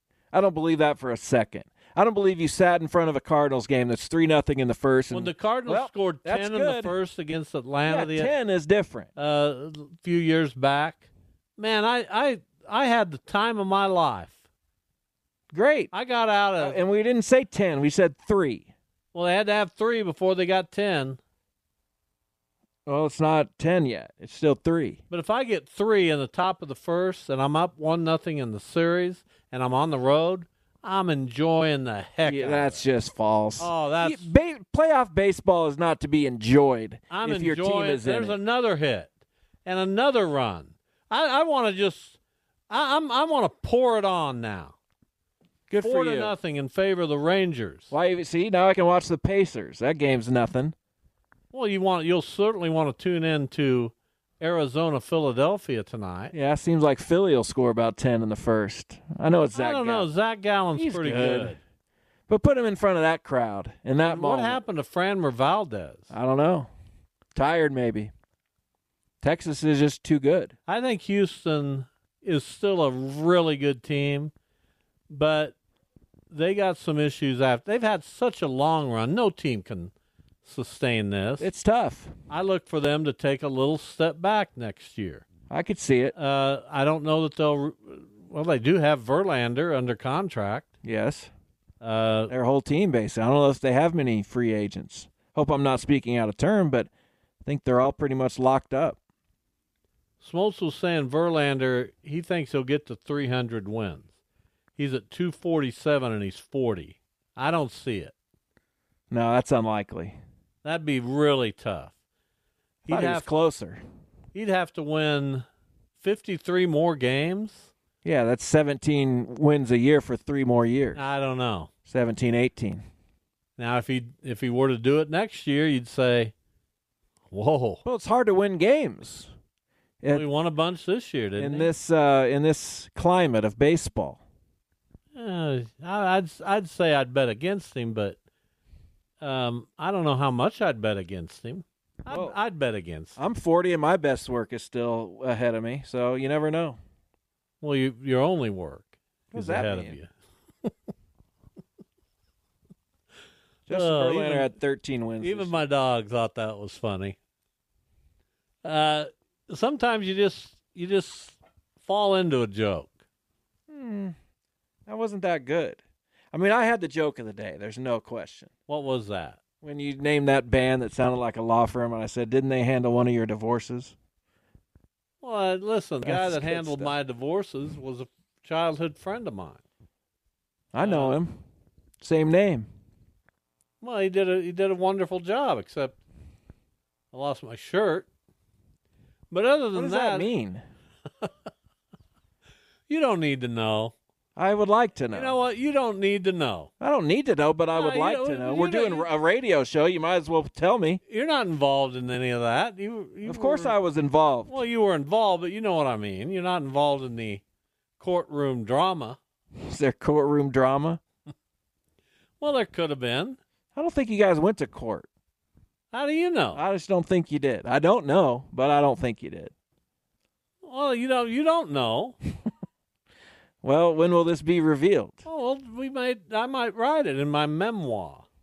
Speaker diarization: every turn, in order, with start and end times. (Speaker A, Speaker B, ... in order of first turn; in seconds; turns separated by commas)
Speaker A: 0.3-7.0, Speaker B: 5.1-8.3, Speaker A: 7.8-9.1, Speaker B: 9.2-11.1, Speaker B: 11.6-14.4, Speaker A: 15.5-15.9, Speaker B: 15.9-16.8, Speaker A: 16.6-18.7, Speaker B: 19.1-21.2, Speaker A: 22.9-25.0, Speaker B: 25.1-32.9, Speaker A: 32.2-38.4, Speaker B: 33.6-34.3, Speaker B: 37.1-39.1, Speaker B: 39.6-42.2, Speaker B: 42.7-44.8, Speaker A: 45.7-46.3, Speaker B: 45.8-47.9, Speaker A: 47.9-50.7, Speaker B: 51.5-56.3, Speaker A: 56.3-60.1, Speaker B: 59.5-61.6, Speaker A: 60.8-61.6, Speaker A: 62.3-64.6, Speaker B: 64.0-66.1, Speaker A: 66.1-66.7, Speaker A: 67.3-68.1, Speaker A: 69.2-70.5, Speaker B: 70.7-74.3, Speaker B: 75.1-75.5, Speaker B: 76.3-79.9, Speaker B: 80.4-81.5, Speaker A: 81.4-82.1, Speaker B: 82.3-85.3, Speaker A: 85.5-86.1, Speaker B: 86.1-90.7, Speaker A: 90.8-91.3, Speaker B: 91.8-92.3, Speaker A: 92.3-96.9, Speaker A: 97.4-99.0, Speaker B: 100.2-104.1, Speaker B: 104.8-108.1, Speaker A: 109.1-110.2, Speaker B: 110.6-111.9, Speaker B: 112.8-113.3, Speaker A: 112.9-113.8, Speaker B: 114.3-115.4, Speaker B: 116.0-117.7, Speaker A: 118.0-121.0, Speaker B: 120.9-121.7, Speaker A: 121.9-122.8, Speaker B: 123.6-126.3, Speaker B: 127.3-127.8, Speaker A: 127.8-129.3, Speaker B: 130.1-131.7, Speaker A: 131.4-134.2, Speaker B: 135.1-138.2, Speaker B: 139.2-143.2, Speaker A: 142.1-142.3, Speaker A: 143.2-146.8, Speaker B: 147.6-150.1, Speaker A: 149.3-149.9, Speaker B: 153.7-154.5, Speaker A: 153.7-155.6, Speaker B: 155.2-157.2, Speaker B: 158.6-163.0, Speaker A: 163.7-164.1, Speaker A: 164.9-165.8, Speaker A: 166.3-168.5, Speaker B: 168.7-169.4, Speaker A: 169.6-173.9, Speaker B: 175.2-179.6, Speaker A: 176.0-176.9, Speaker A: 180.7-181.4, Speaker B: 180.8-181.2, Speaker A: 182.0-182.7, Speaker B: 183.8-186.0, Speaker B: 187.1-188.1, Speaker B: 189.3-190.3, Speaker A: 189.7-190.6, Speaker B: 192.9-193.9, Speaker A: 194.3-195.4, Speaker B: 195.1-196.7, Speaker A: 196.8-201.0, Speaker B: 197.7-199.1, Speaker B: 201.1-203.7, Speaker A: 203.2-204.6, Speaker B: 204.5-207.4, Speaker B: 208.0-209.2, Speaker A: 209.6-211.0, Speaker B: 212.4-213.4, Speaker A: 213.8-215.1, Speaker B: 215.9-216.6, Speaker A: 216.5-219.5, Speaker B: 220.6-222.2, Speaker A: 223.6-225.2, Speaker B: 225.2-228.2